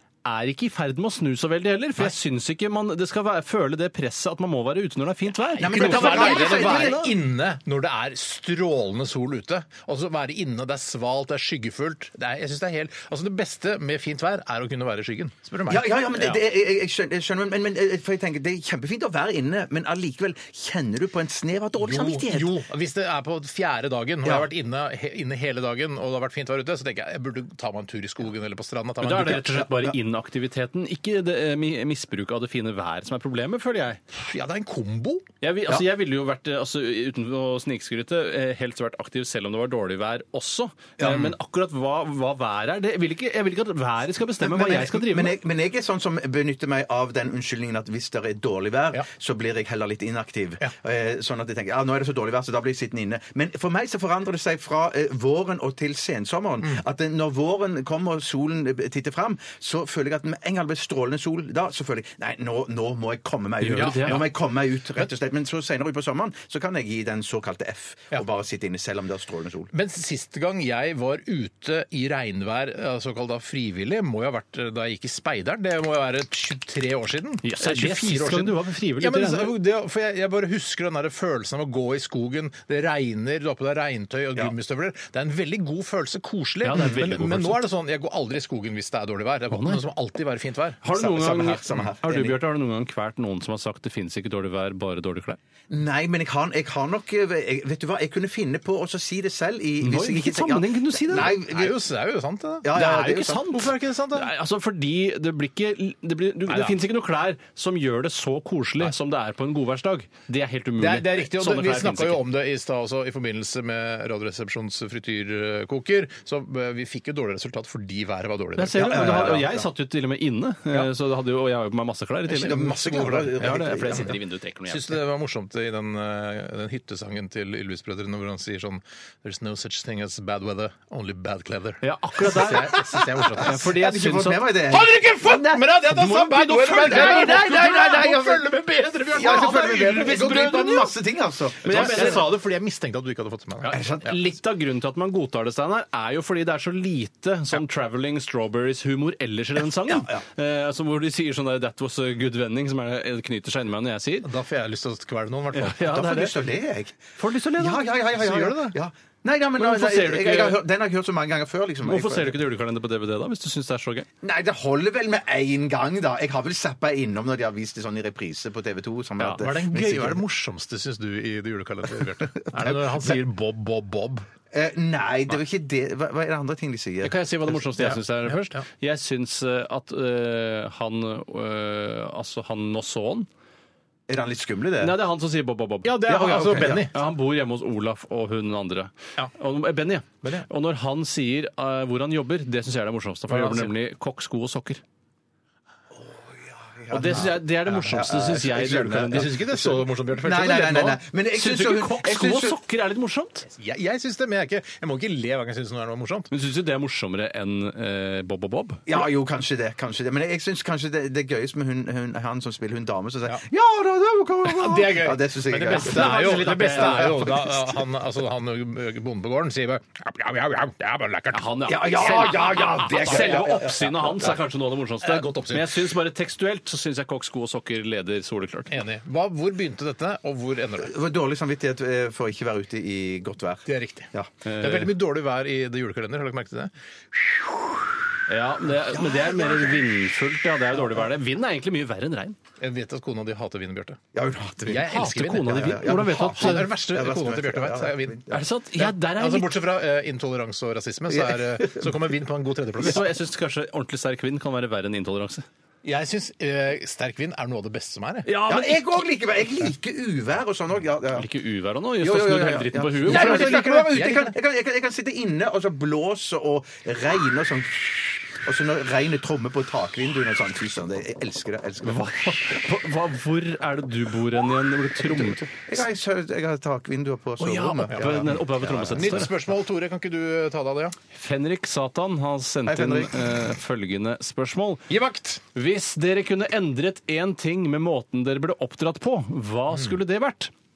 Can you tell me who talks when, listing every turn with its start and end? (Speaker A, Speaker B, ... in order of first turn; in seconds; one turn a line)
Speaker A: 0.2-7.1
Speaker B: 5.6-7.1
Speaker C: 5.6-16.4
Speaker B: 15.7-22.6
Speaker C: 21.8-29.6
Speaker A: 29.0-34.0
Speaker C: 34.1-35.3
Speaker A: 35.4-45.4
Speaker C: 41.0-41.3
Speaker B: 44.4-69.7
Speaker A: 63.6-64.2
Speaker C: 63.7-64.3
Speaker C: 69.7-90.8
Speaker A: 77.4-79.5
Speaker A: 86.6-87.6
Speaker A: 89.5-89.8
Speaker A: 90.8-95.4
Speaker B: 90.9-92.4
Speaker B: 95.7-101.8
Speaker A: 99.8-101.3
Speaker C: 101.1-104.3
Speaker B: 102.6-103.5
Speaker A: 102.7-112.2
Speaker C: 106.5-106.8
Speaker C: 110.8-119.4
Speaker A: 118.6-122.6
Speaker B: 118.7-119.7
Speaker C: 122.3-124.1
Speaker B: 122.3-124.2
Speaker A: 123.4-125.0
Speaker C: 124.7-133.7
Speaker A: 131.8-134.5
Speaker B: 133.3-135.6
Speaker C: 134.7-140.4
Speaker A: 135.9-137.6
Speaker B: 136.8-138.5
Speaker B: 139.1-142.2
Speaker A: 139.2-140.9
Speaker A: 141.6-142.3
Speaker C: 141.6-143.8
Speaker B: 143.6-144.2
Speaker A: 144.0-154.3
Speaker B: 149.9-150.2
Speaker C: 154.2-156.0
Speaker A: 155.5-156.3
Speaker B: 155.8-157.0
Speaker A: 157.2-157.8
Speaker B: 157.6-162.4
Speaker C: 158.1-158.8
Speaker A: 159.6-160.6
Speaker A: 161.8-164.1
Speaker B: 164.2-170.2
Speaker C: 169.2-174.3
Speaker B: 172.2-173.2
Speaker B: 174.5-177.2
Speaker A: 177.0-183.3
Speaker C: 177.8-178.6
Speaker B: 184.1-184.9
Speaker A: 184.8-194.8
Speaker C: 185.8-186.9
Speaker B: 186.1-186.9
Speaker C: 190.2-190.5
Speaker C: 193.3-193.7
Speaker B: 195.9-202.6
Speaker A: 196.9-199.3
Speaker C: 198.7-201.0
Speaker A: 201.3-203.4
Speaker C: 203.5-206.3
Speaker A: 206.3-208.8
Speaker B: 208.9-217.7
Speaker C: 214.4-221.4
Speaker A: 215.7-217.2
Speaker A: 221.3-228.8
Speaker B: 221.7-224.3
Speaker C: 222.0-224.4
Speaker C: 225.0-225.9
Speaker C: 228.7-230.9
Speaker B: 230.8-234.3
Speaker C: 233.7-237.7
Speaker A: 234.4-234.9
Speaker A: 238.3-242.3
Speaker B: 238.9-239.8
Speaker C: 242.6-244.0
Speaker B: 244.1-248.4
Speaker C: 244.7-248.2
Speaker A: 244.9-246.7
Speaker A: 248.3-249.5
Speaker C: 248.8-253.0
Speaker B: 251.2-251.9
Speaker A: 252.8-255.4
Speaker C: 255.8-258.3
Speaker A: 258.2-258.8
Speaker B: 258.4-261.3
Speaker A: 261.1-263.6
Speaker B: 262.0-272.5
Speaker C: 263.0-264.3
Speaker A: 271.8-275.4
Speaker B: 275.1-279.2
Speaker A: 277.4-279.3
Speaker C: 277.9-278.3
Speaker C: 278.9-281.0
Speaker A: 281.1-284.8
Speaker B: 282.6-283.3
Speaker C: 284.9-285.4
Speaker A: 285.5-290.5